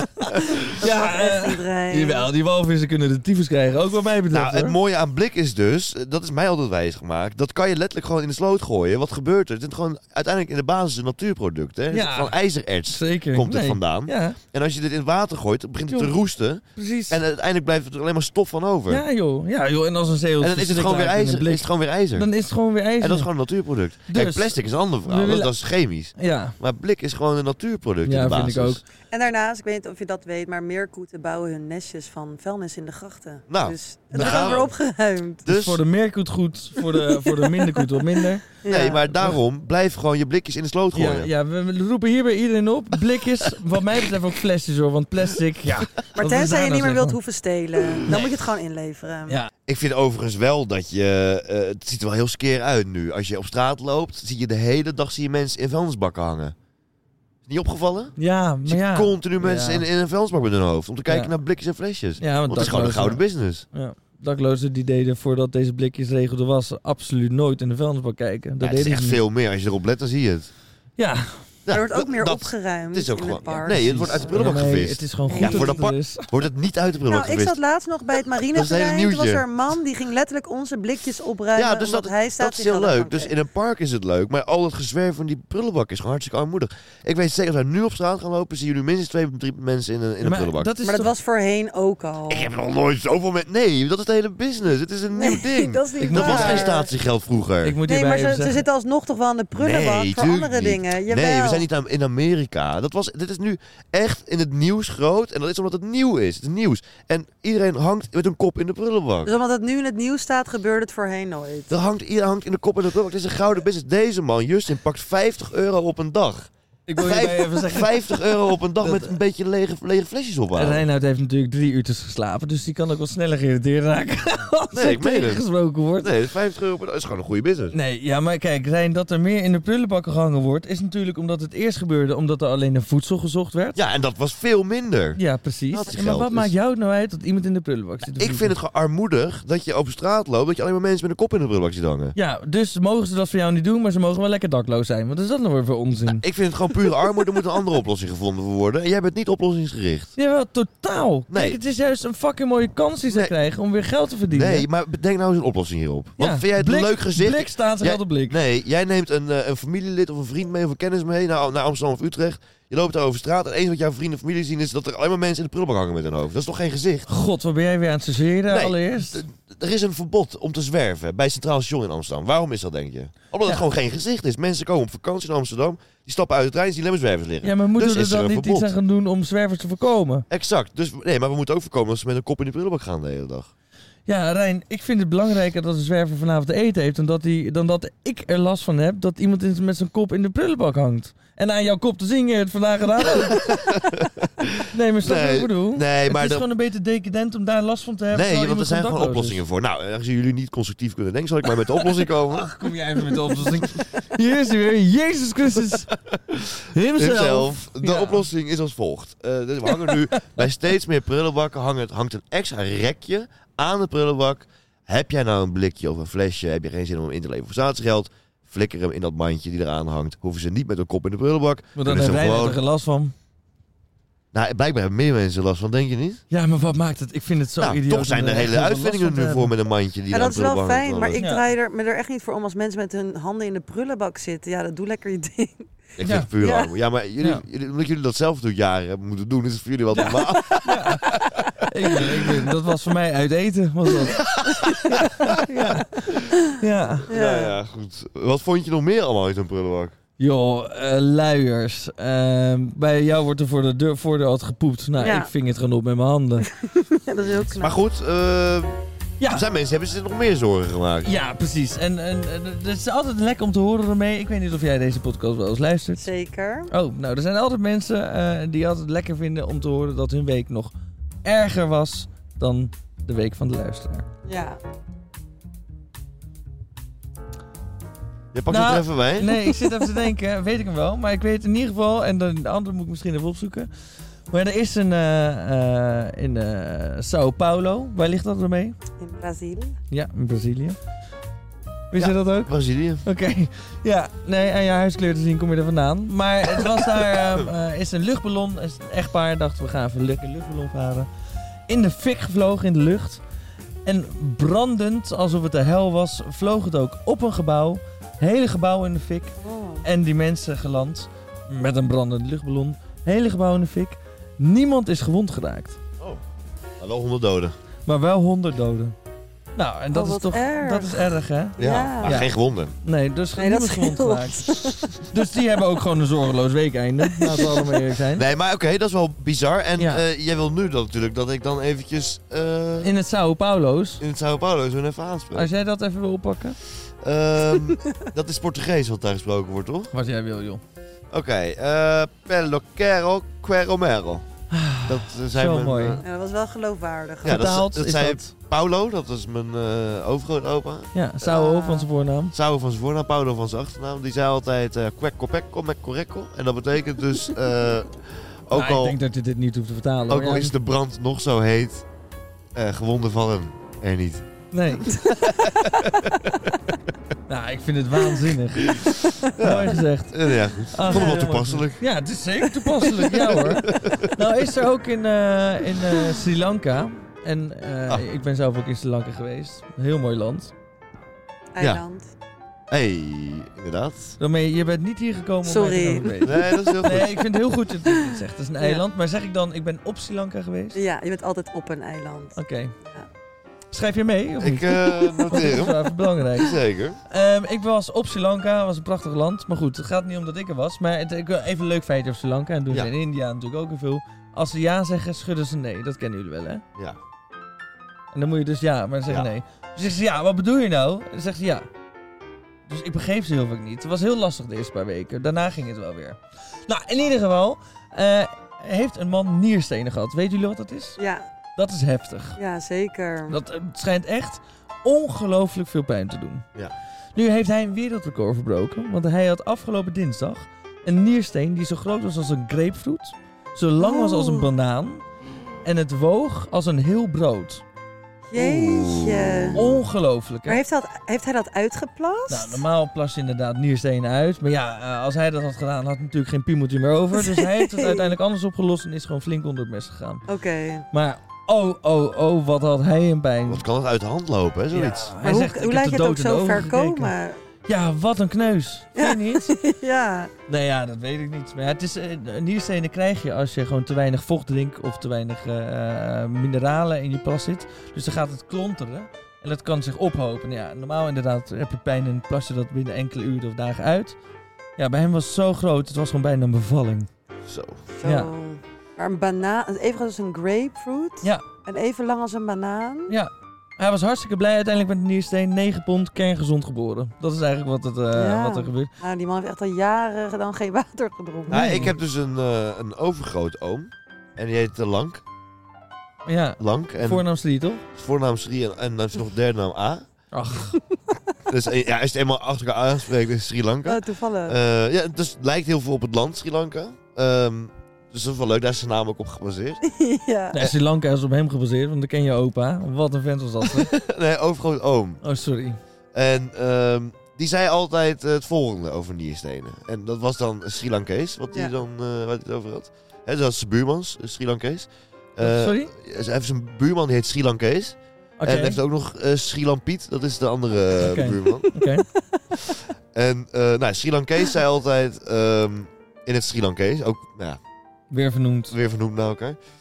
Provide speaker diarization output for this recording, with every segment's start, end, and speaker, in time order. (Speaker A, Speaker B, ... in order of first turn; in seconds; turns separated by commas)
Speaker A: 0.7-2.3, Speaker B: 0.7-4.8, Speaker C: 4.3-19.0, Speaker B: 11.9-12.3, Speaker B: 12.9-14.4, Speaker B: 15.9-16.2, Speaker B: 16.8-17.2, Speaker B: 18.9-23.3, Speaker C: 20.4-22.3, Speaker C: 23.0-28.8, Speaker B: 24.1-25.5, Speaker B: 26.2-26.6, Speaker B: 28.1-28.8, Speaker A: 29.1-35.5, Speaker C: 33.5-34.7, Speaker B: 34.1-34.6, Speaker C: 35.5-35.8, Speaker B: 35.5-38.6, Speaker A: 36.9-38.0, Speaker A: 38.5-39.1, Speaker C: 38.7-41.3, Speaker B: 40.9-47.2, Speaker A: 46.2-49.4, Speaker B: 48.1-48.4, Speaker C: 49.7-56.5, Speaker C: 57.5-63.7, Speaker B: 58.2-59.9, Speaker B: 61.1-61.3, Speaker B: 62.2-69.2, Speaker C: 68.6-70.5, Speaker B: 71.0-71.5, Speaker C: 71.7-77.6, Speaker A: 71.7-74.5, Speaker B: 73.7-76.3, Speaker A: 75.3-75.8, Speaker A: 77.1-83.3, Speaker C: 78.4-79.5, Speaker C: 81.6-90.7, Speaker B: 90.2-91.1, Speaker A: 90.8-92.5, Speaker C: 92.3-97.8, Speaker A: 95.1-96.9, Speaker B: 96.0-96.8, Speaker B: 97.6-98.6, Speaker A: 97.9-101.7, Speaker C: 99.5-109.3, Speaker A: 109.2-111.7, Speaker C: 111.7-120.9, Speaker B: 116.9-119.1, Speaker B: 120.5-126.2, Speaker C: 124.7-125.5, Speaker C: 126.0-127.8, Speaker B: 127.7-133.8, Speaker C: 133.8-136.5, Speaker B: 135.2-138.5, Speaker C: 138.2-142.2, Speaker B: 142.2-146.2, Speaker C: 146.1-150.1, Speaker B: 150.2-154.7, Speaker C: 151.3-151.6, Speaker C: 153.1-153.3, Speaker C: 154.3-167.1, Speaker B: 156.2-158.4, Speaker B: 167.1-169.2, Speaker C: 168.5-178.7, Speaker B: 177.4-180.3, Speaker C: 180.3-183.5, Speaker B: 184.1-193.5, Speaker C: 193.2-196.5, Speaker B: 194.7-199.4, Speaker C: 198.1-202.5, Speaker B: 202.3-205.9, Speaker C: 203.3-203.7, Speaker C: 206.1-222.6, Speaker B: 206.7-208.3, Speaker B: 209.7-210.4, Speaker B: 221.8-223.1, Speaker C: 224.3-226.2, Speaker B: 226.3-229.5, Speaker C: 227.6-231.2, Speaker A: 230.1-235.7, Speaker C: 236.0-242.5, Speaker B: 236.0-236.3, Speaker A: 236.4-236.7, Speaker B: 239.9-247.1, Speaker C: 244.1-245.4, Speaker A: 244.5-245.5, Speaker A: 246.1-247.6, Speaker C: 247.1-250.0, Speaker B: 250.2-256.5, Speaker A: 255.0-255.3, Speaker A: 256.5-257.8, Speaker C: 257.6-261.1, Speaker B: 259.2-259.4, Speaker B: 261.0-266.1, Speaker A: 266.0-266.7, Speaker B: 266.7-270.7, Speaker B: 271.2-274.1, Speaker A: 274.2-274.6, Speaker C: 278.3-279.5, Speaker B: 278.5-283.7, Speaker B: 284.3-288.8, Speaker A: 289.0-289.8, Speaker B: 289.9-290.8, Speaker B: 291.9-292.5, Speaker C: 292.0-293.1, Speaker B: 293.0-301.1, Speaker B: 301.7-303.2, Speaker B: 303.9-315.8, Speaker A: 309.4-309.9, Speaker C: 316.8-317.6, Speaker B: 317.9-318.9, Speaker B: 319.6-322.3, Speaker A: 319.9-322.2, Speaker C: 321.6-322.7, Speaker B: 322.8-328.3, Speaker A: 323.4-325.0, Speaker A: 327.1-327.7, Speaker C: 328.1-332.9, Speaker B: 329.8-330.0, Speaker B: 332.8-334.0, Speaker C: 334.0-335.5, Speaker B: 335.3-336.6, Speaker C: 337.0-339.9, Speaker A: 337.6-337.9, Speaker B: 339.9-340.6, Speaker C: 341.1-344.3, Speaker B: 344.5-346.0, Speaker C: 344.9-346.0, Speaker A: 346.0-347.5, Speaker C: 347.2-350.9, Speaker B: 347.2-348.3, Speaker B: 350.9-352.3, Speaker A: 351.2-351.9, Speaker C: 352.3-359.0, Speaker B: 358.5-360.5, Speaker C: 360.1-361.9, Speaker C: 362.6-364.3, Speaker B: 364.5-365.1, Speaker A: 364.9-365.8, Speaker C: 365.1-366.5, Speaker B: 367.3-380.5, Speaker C: 368.7-371.8, Speaker A: 370.9-371.2, Speaker A: 372.8-373.1, Speaker C: 373.4-374.2, Speaker A: 381.6-382.1, Speaker C: 382.7-384.2, Speaker B: 384.2-390.8, Speaker A: 385.4-386.7, Speaker C: 386.2-387.2, Speaker A: 390.7-393.1, Speaker B: 392.4-392.7, Speaker B: 393.7-406.6, Speaker C: 394.4-395.8, Speaker C: 396.3-397.0, Speaker B: 408.1-411.7, Speaker B: 412.7-421.0, Speaker A: 421.0-421.2, Speaker B: 421.6-422.4, Speaker A: 422.4-423.4, Speaker B: 423.3-426.4, Speaker B: 427.1-435.0, Speaker A: 433.8-434.5, Speaker B: 435.6-437.6, Speaker A: 438.3-439.6, Speaker C: 438.4-439.7, Speaker B: 439.6-440.6, Speaker A: 440.5-442.6, Speaker B: 442.3-450.3, Speaker A: 447.1-448.1, Speaker A: 450.3-450.9, Speaker B: 450.9-453.6, Speaker C: 453.5-455.1, Speaker B: 454.7-457.1, Speaker A: 455.2-457.4, Speaker B: 457.7-459.6, Speaker A: 459.0-460.3, Speaker B: 460.5-474.2, Speaker B: 474.8-477.1, Speaker C: 477.5-477.9, Speaker A: 478.0-483.1, Speaker B: 478.0-478.3, Speaker B: 483.1-488.9, Speaker A: 488.1-491.9, Speaker C: 491.5-495.2, Speaker B: 491.5-491.9, Speaker B: 496.3-497.8, Speaker C: 496.6-497.2, Speaker C: 497.9-500.1, Speaker B: 500.3-500.8, Speaker A: 500.7-501.1, Speaker C: 501.5-509.8, Speaker A: 503.9-504.6, Speaker A: 509.8-510.6, Speaker B: 510.5-513.9, Speaker C: 513.7-515.2, Speaker B: 515.2-515.8, Speaker C: 516.1-531.7, Speaker B: 525.4-525.9, Speaker B: 528.4-528.8, Speaker B: 531.0-532.1, Speaker C: 532.7-537.6, Speaker B: 538.1-538.8, Speaker C: 538.7-539.6